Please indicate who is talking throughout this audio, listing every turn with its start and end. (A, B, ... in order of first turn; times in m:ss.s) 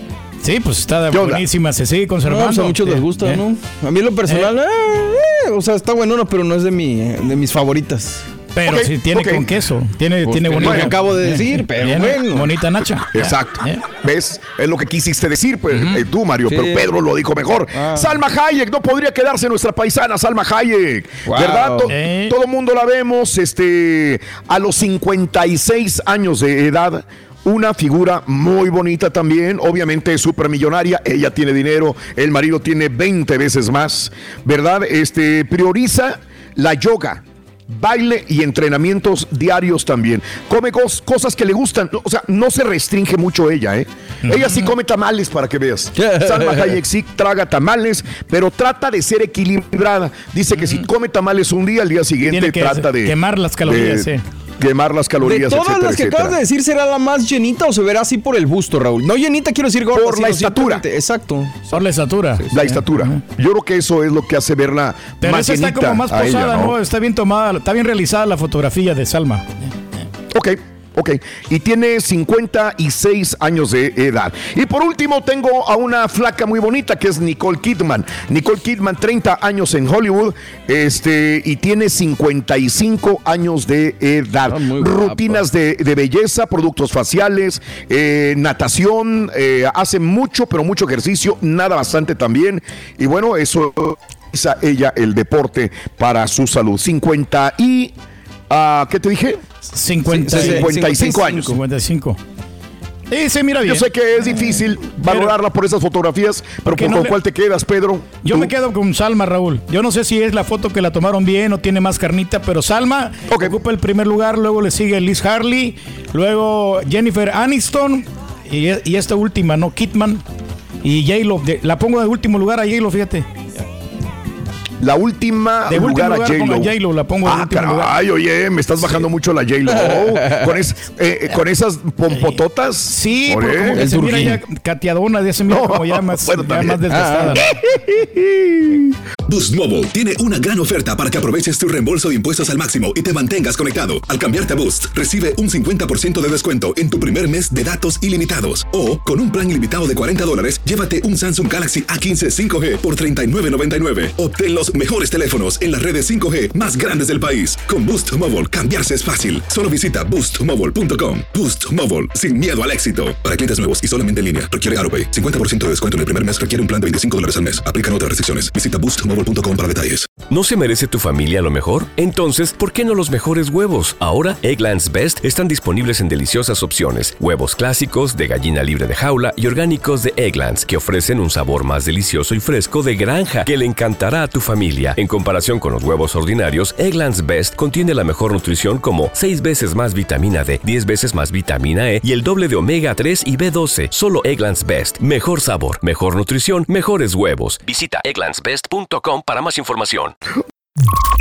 0:00.4-0:03.4 A
0:01.1-0:01.4 B
0:02.2-0:08.3 C
0:04.3-0:04.5 A
0:08.5-0:13.8 A
0:08.6-0:09.5 B
0:10.2-0:12.6 C
0:10.6-0:11.0 B
0:13.1-0:56.4 B
0:15.8-0:16.0 A
0:16.5-0:16.9 C
0:17.7-0:18.2 C
0:21.2-0:21.9 C
0:21.9-0:22.3 A
0:44.3-0:44.7 A
0:46.0-0:46.8 C
0:52.2-0:54.2 A
0:55.2-1:01.8 C
0:59.9-1:00.8 B
1:01.7-1:03.2 A
1:02.5-1:06.8 B
1:05.2-1:09.5 A
1:10.3-1:37.9 B
1:24.5-1:25.4 C
1:38.5-1:39.4 B
1:39.7-1:40.7 A
1:40.1-1:41.6 C
1:40.3-1:41.5 B
1:41.4-1:42.2 A
1:43.1-1:44.4 A
1:43.6-1:48.5 B
1:45.0-1:45.3 A
1:46.7-1:47.2 A
1:48.2-2:00.2 A
1:53.3-1:53.6 B
2:00.8-2:03.3 A
2:04.8-2:13.8 B
2:05.7-2:08.0 A
2:09.7-2:10.6 C
2:12.9-2:17.4 A
2:13.7-2:14.4 C
2:15.5-2:16.8 B
2:16.9-2:17.4 C
2:17.4-2:18.9 B
2:19.3-2:50.1 D
2:50.3-3:20.1 E